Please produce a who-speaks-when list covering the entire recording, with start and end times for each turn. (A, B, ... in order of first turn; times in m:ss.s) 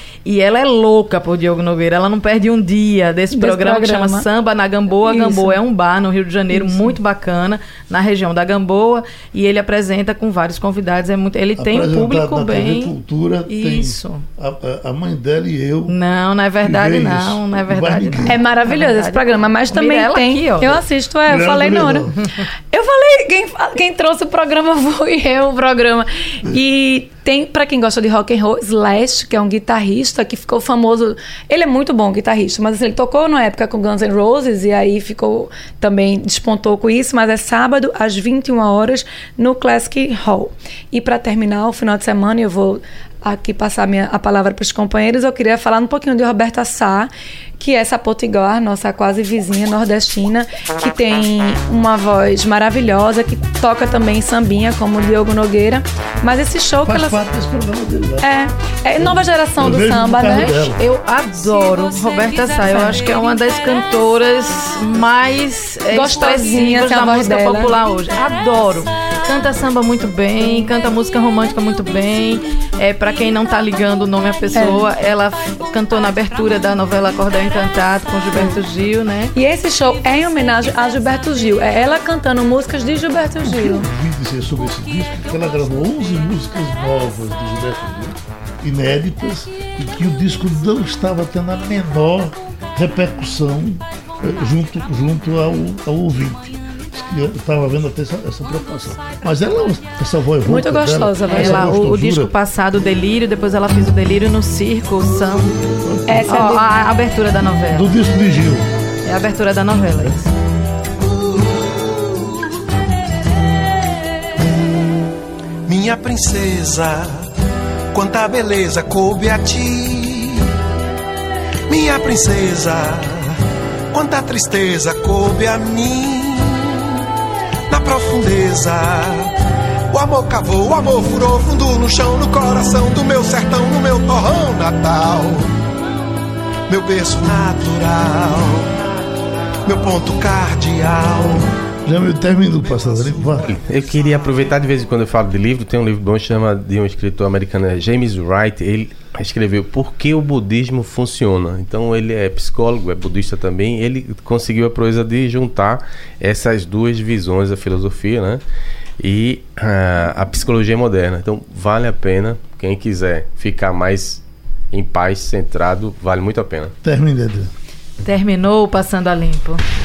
0:00.2-0:14.2 A
0:03.3-0:04.2 B
0:05.0-0:05.6 B
0:06.5-0:07.0 B
0:11.6-0:15.9 C
0:15.9-0:20.8 A
0:16.6-0:18.4 C
0:18.2-0:57.2 B
0:20.7-0:22.1 C
0:56.8-0:58.3 C
0:58.2-1:00.7 B
0:59.0-1:00.8 C
1:00.8-1:19.3 A
1:02.5-1:03.1 B
1:05.9-1:07.8 B
1:14.6-1:14.9 B
1:19.3-1:23.9 B
1:23.4-1:42.3 C
1:40.4-1:41.7 B
1:41.3-1:45.6 A
1:45.8-1:46.3 C
1:46.1-1:46.7 B
1:46.3-1:47.9 A
1:47.7-1:48.7 C
1:49.0-1:50.3 A
1:55.6-1:57.2 D
1:57.9-2:00.4 D
2:01.7-2:03.4 D
2:03.9-2:06.7 D
2:07.7-2:09.3 D
2:09.9-2:15.5 D
2:16.7-2:18.7 D
2:19.6-2:21.5 D
2:21.8-2:23.6 C
2:23.4-2:38.4 E
2:39.0-2:46.7 E
2:46.8-2:47.5 C
2:48.0-2:49.6 A